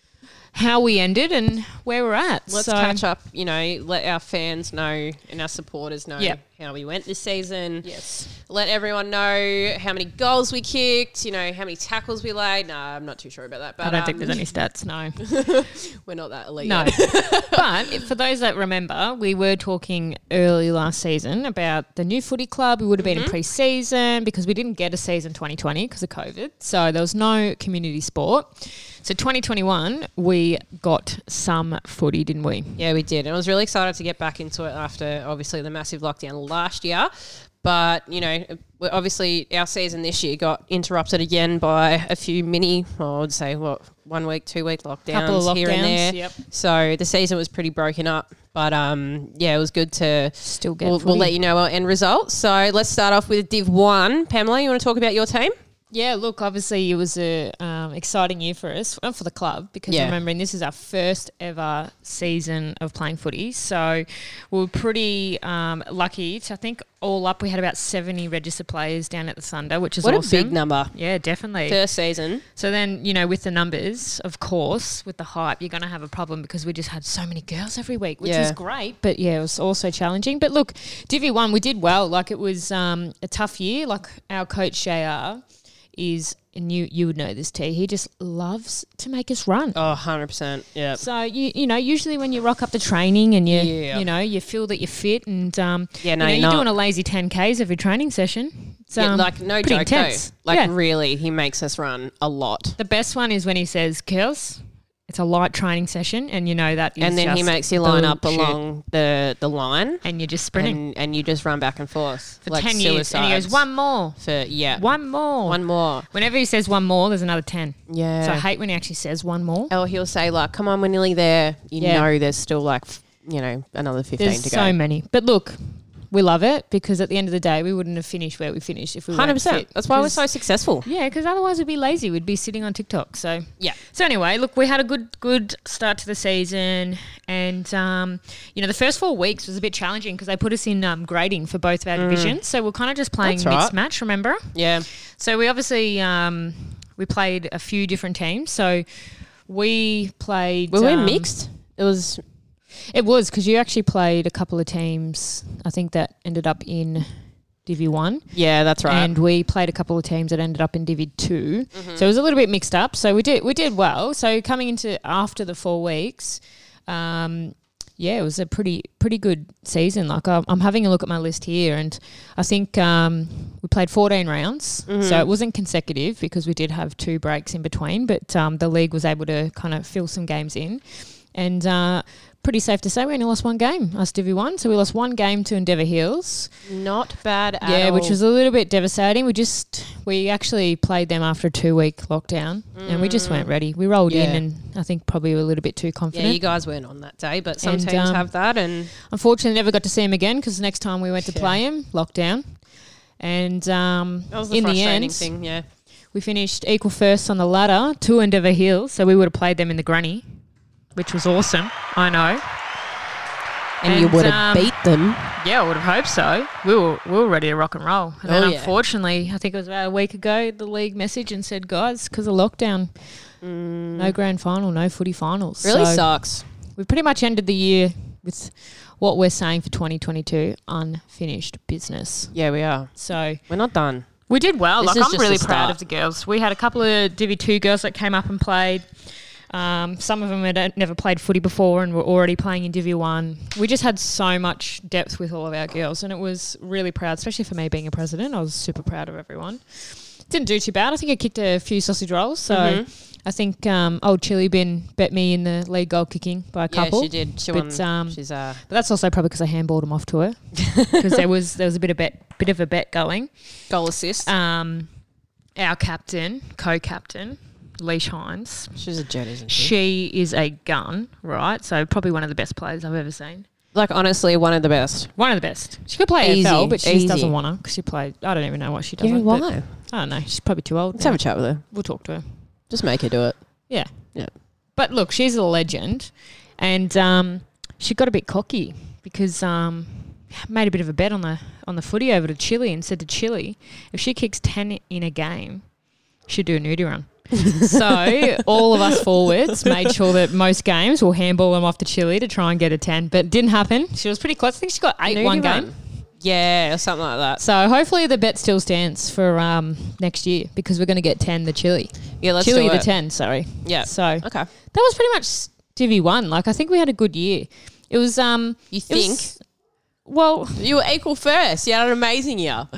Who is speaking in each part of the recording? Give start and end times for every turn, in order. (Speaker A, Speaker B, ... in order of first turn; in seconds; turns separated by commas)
Speaker A: 0.5-3.0, Speaker B: 2.5-14.5, Speaker A: 7.8-8.3, Speaker A: 13.8-15.3, Speaker B: 15.2-18.0, Speaker A: 16.6-32.8, Speaker B: 23.0-23.4, Speaker B: 32.8-55.5, Speaker A: 45.1-46.4, Speaker A: 50.4-51.3, Speaker A: 55.9-71.8, Speaker B: 59.9-60.1, Speaker B: 70.0-70.9, Speaker B: 71.7-72.4, Speaker A: 72.5-85.4, Speaker B: 78.2-78.6, Speaker A: 85.9-89.8, Speaker B: 89.7-91.0, Speaker A: 90.9-100.7, Speaker B: 93.5-94.0, Speaker B: 96.0-96.7, Speaker B: 99.0-102.8, Speaker A: 102.8-108.6, Speaker B: 107.0-116.1, Speaker A: 110.0-110.8, Speaker A: 112.5-114.2, Speaker A: 114.7-119.7, Speaker B: 117.9-118.4, Speaker B: 119.7-124.8, Speaker A: 121.8-122.1, Speaker A: 124.2-130.2, Speaker B: 129.1-130.8, Speaker A: 130.8-144.5, Speaker B: 141.9-142.4, Speaker B: 143.2-143.7, Speaker B: 144.5-144.9, Speaker A: 145.1-148.8, Speaker A: 149.5-151.4, Speaker B: 150.7-152.2, Speaker A: 152.9-157.1, Speaker A: 157.6-158.3, Speaker B: 158.3-159.1, Speaker A: 158.8-186.5, Speaker B: 161.7-162.0, Speaker B: 174.9-175.2, Speaker B: 186.6-188.2, Speaker A: 187.6-196.4, Speaker B: 192.7-193.5, Speaker B: 194.1-194.4, Speaker B: 196.1-198.9, Speaker A: 197.6-198.3, Speaker A: 199.0-202.6, Speaker B: 201.2-201.6, Speaker A: 203.2-205.3, Speaker B: 204.3-205.6, Speaker A: 206.1-210.2, Speaker A: 210.9-212.4, Speaker B: 213.8-215.3, Speaker A: 213.8-214.8, Speaker A: 215.3-222.9, Speaker B: 218.2-218.7, Speaker B: 223.4-224.2, Speaker A: 223.9-226.1, Speaker B: 225.6-226.4, Speaker A: 226.8-232.3, Speaker B: 232.3-234.1, Speaker A: 232.9-233.4, Speaker A: 234.3-238.9, Speaker B: 234.8-235.8, Speaker A: 239.5-263.3, Speaker B: 252.5-252.9, Speaker B: 256.7-258.6, Speaker B: 260.6-261.2, Speaker B: 263.7-264.3, Speaker A: 264.2-264.9, Speaker A: 265.6-268.8, Speaker B: 268.8-269.7, Speaker A: 269.5-273.5, Speaker B: 273.7-275.1, Speaker A: 275.2-282.2, Speaker B: 276.2-277.3, Speaker B: 279.0-279.7, Speaker B: 280.9-281.6, Speaker B: 282.7-283.4, Speaker A: 284.8-295.6, Speaker A: 296.3-305.7, Speaker B: 297.4-298.8, Speaker B: 299.5-299.9, Speaker B: 305.1-307.4, Speaker A: 307.4-319.4, Speaker B: 312.2-312.9, Speaker B: 313.6-314.5, Speaker B: 318.7-319.3, Speaker A: 320.0-320.7, Speaker B: 320.6-322.7